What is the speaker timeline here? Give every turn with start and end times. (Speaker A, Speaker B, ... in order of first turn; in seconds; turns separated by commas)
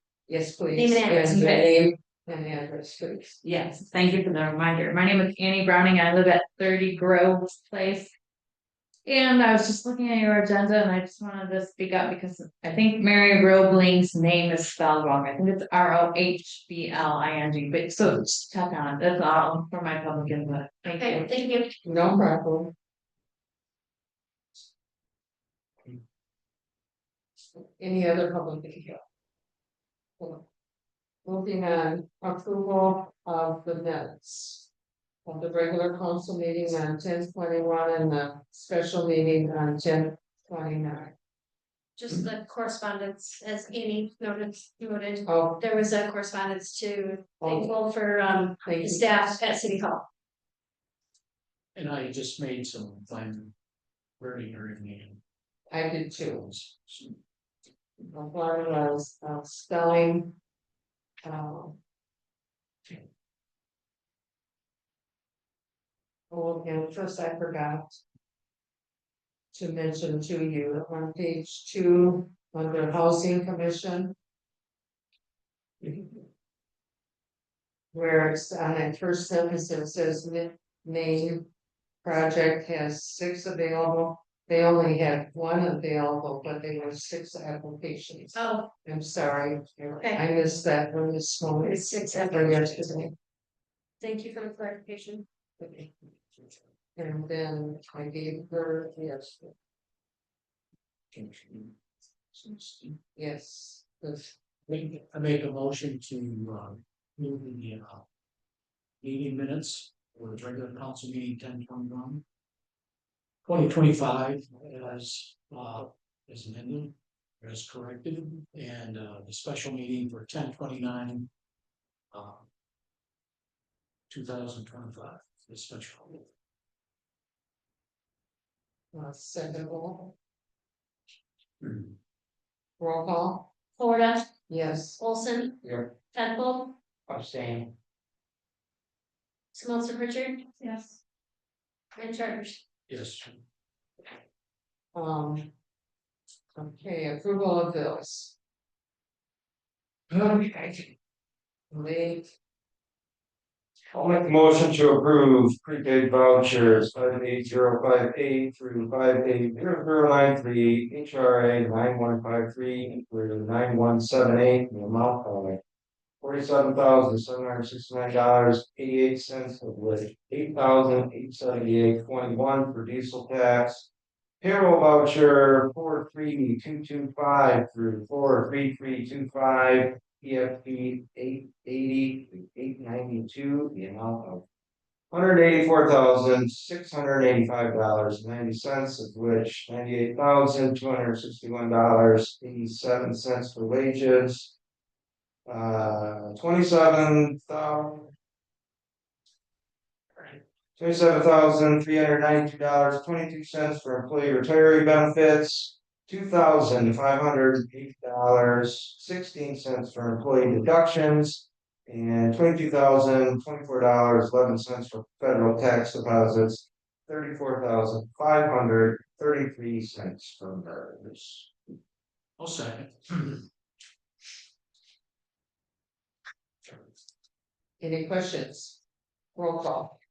Speaker A: 0.3-3.4, Speaker B: 0.7-1.7, Speaker C: 3.4-8.1, Speaker C: 9.0-21.2, Speaker B: 20.8-21.8, Speaker A: 21.8-22.7, Speaker A: 27.8-29.0, Speaker A: 30.2-30.4, Speaker A: 31.2-34.7, Speaker A: 35.2-41.1, Speaker B: 42.0-50.0, Speaker A: 45.2-45.6, Speaker A: 47.4-47.7, Speaker A: 48.6-49.4, Speaker D: 51.7-53.5, Speaker D: 54.2-55.2, Speaker A: 55.7-56.5, Speaker D: 56.3-57.1, Speaker A: 58.0-60.4, Speaker A: 61.2-61.8, Speaker A: 66.3-68.0, Speaker A: 69.5-74.1, Speaker A: 75.8-76.2, Speaker A: 77.9-81.5, Speaker A: 82.0-93.1, Speaker B: 88.3-88.7, Speaker B: 90.0-90.2, Speaker B: 91.6-93.1, Speaker B: 94.0-95.2, Speaker A: 95.6-95.9, Speaker A: 97.0-99.5, Speaker D: 101.1-101.7, Speaker D: 102.3-103.0, Speaker A: 103.1-104.3, Speaker D: 104.7-108.0, Speaker D: 109.0-112.2, Speaker D: 113.4-121.3, Speaker D: 122.1-122.5, Speaker D: 124.1-126.3, Speaker A: 128.9-130.2, Speaker A: 132.8-133.5, Speaker B: 133.8-134.3, Speaker A: 134.5-135.0, Speaker B: 135.0-135.6, Speaker E: 135.6-135.9, Speaker B: 136.1-136.8, Speaker E: 137.1-137.7, Speaker B: 139.5-141.0, Speaker B: 141.9-142.6, Speaker D: 142.9-143.3, Speaker A: 144.9-145.5, Speaker A: 146.6-148.3, Speaker E: 150.1-150.8, Speaker A: 151.7-152.3, Speaker E: 153.9-165.6, Speaker E: 166.2-173.9, Speaker E: 174.4-184.4, Speaker E: 185.1-194.6, Speaker E: 195.5-198.1, Speaker E: 200.2-221.5, Speaker D: 222.4-223.4, Speaker A: 227.8-228.8, Speaker A: 229.3-229.9